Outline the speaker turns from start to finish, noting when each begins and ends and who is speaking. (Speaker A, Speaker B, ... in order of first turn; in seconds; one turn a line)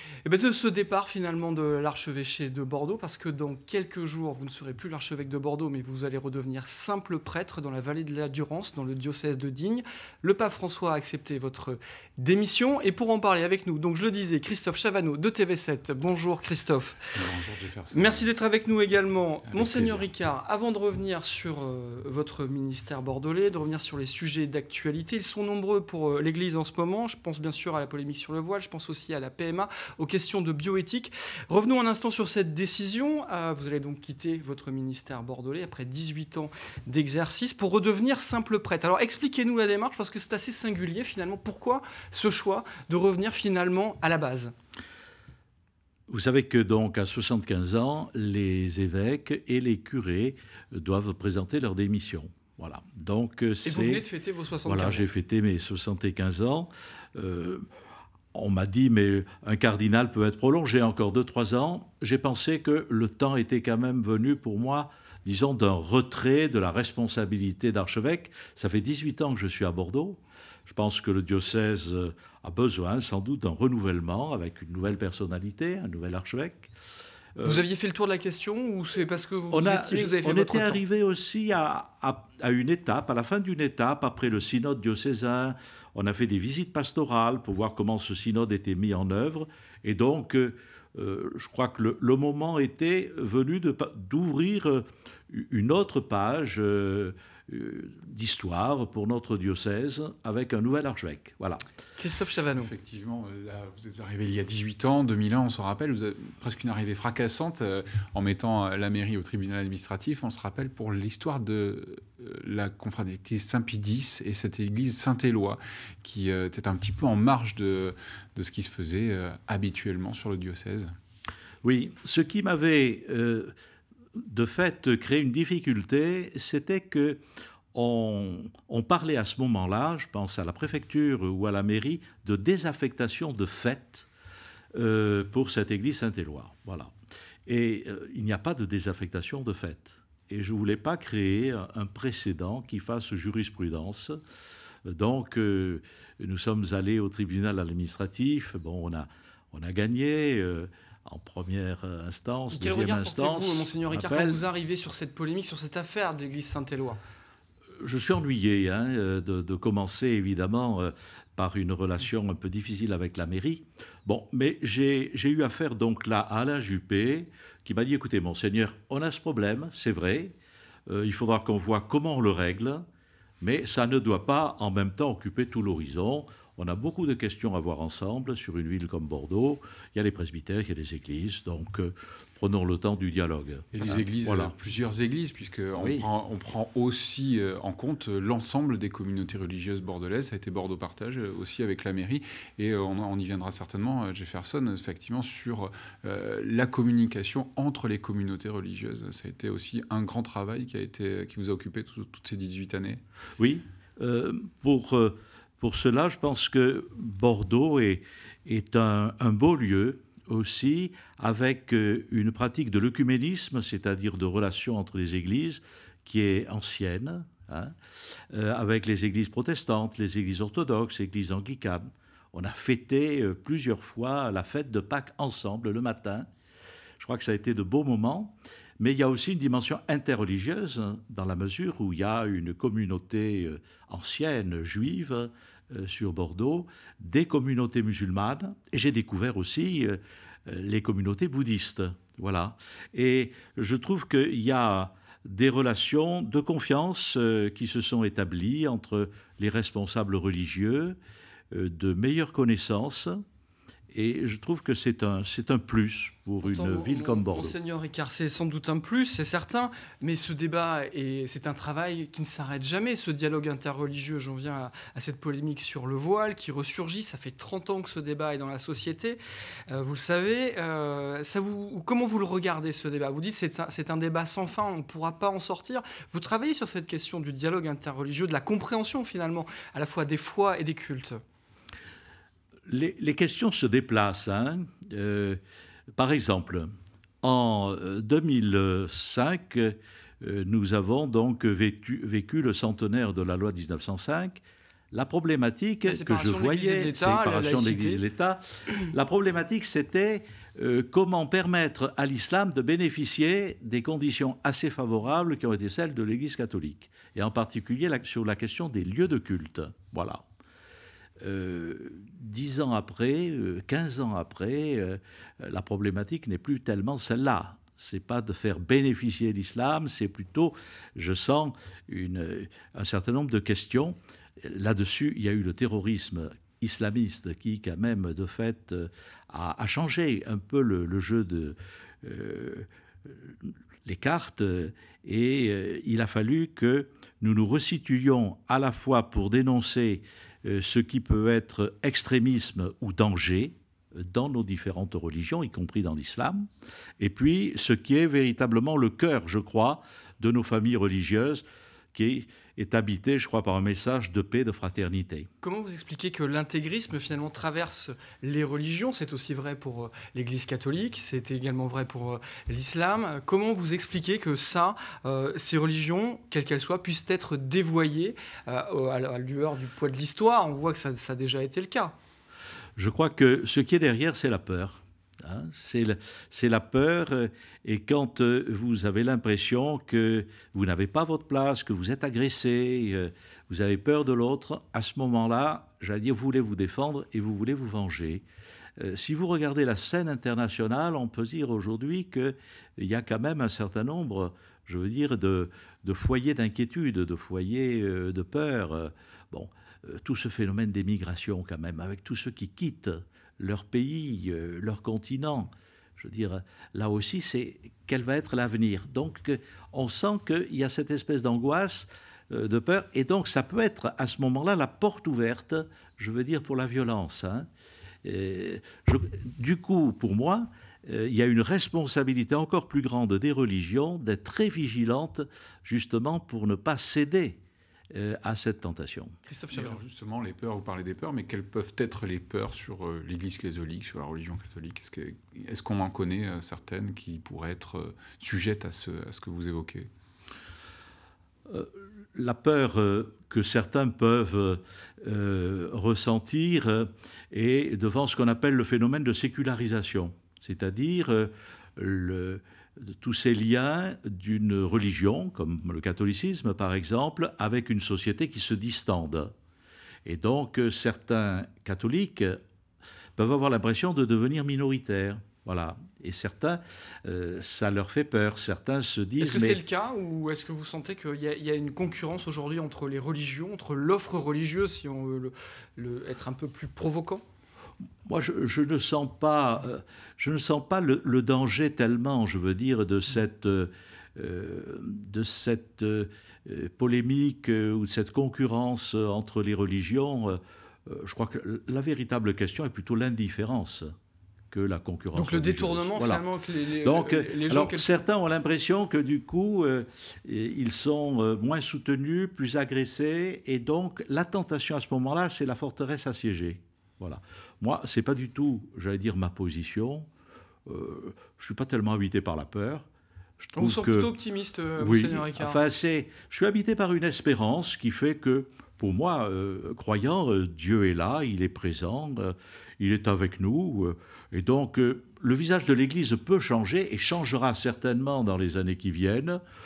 Speaker A: 0.2-17.1
Speaker B: 17.1-18.3
Speaker A: 17.9-44.5
Speaker B: 19.5-20.1
Speaker C: 46.1-54.0
Speaker A: 53.7-55.1
Speaker C: 54.7-57.7
Speaker C: 58.3-76.7
Speaker C: 77.4-77.6
Speaker A: 77.5-80.8
Speaker C: 79.5-101.6
Speaker A: 102.0-102.7
Speaker B: 102.6-120.9
Speaker C: 121.6-123.5
Speaker C: 124.2-127.2
Speaker C: 127.7-134.1
Speaker C: 134.7-136.9
Speaker C: 137.5-144.2
Speaker C: 144.8-154.4
Speaker A: 152.5-157.0
Speaker C: 157.8-170.4
Speaker C: 170.9-172.8
Speaker C: 173.4-184.6
Speaker B: 183.7-203.0
Speaker C: 185.7-186.1
Speaker C: 203.4-226.3
Speaker C: 227.0-251.0
Speaker C: 251.5-253.2
Speaker C: 253.9-257.6
Speaker A: 256.4-281.2
Speaker C: 282.7-285.4
Speaker C: 285.9-310.2
Speaker A: 295.9-298.0
Speaker C: 311.2-355.3
Speaker A: 355.4-371.9
Speaker C: 372.8-388.2
Speaker C: 388.8-417.5
Speaker C: 418.0-427.4
Speaker C: 427.9-429.1
Speaker A: 429.3-429.8
Speaker B: 429.5-439.9
Speaker C: 441.5-459.3
Speaker C: 460.1-462.4
Speaker C: 463.2-469.6
Speaker A: 469.2-477.2
Speaker C: 478.1-493.9
Speaker C: 494.5-496.2
Speaker A: 495.1-498.0
Speaker C: 496.8-510.1
Speaker C: 510.7-512.9
Speaker C: 513.4-514.1
Speaker A: 513.6-515.6
Speaker C: 514.8-529.4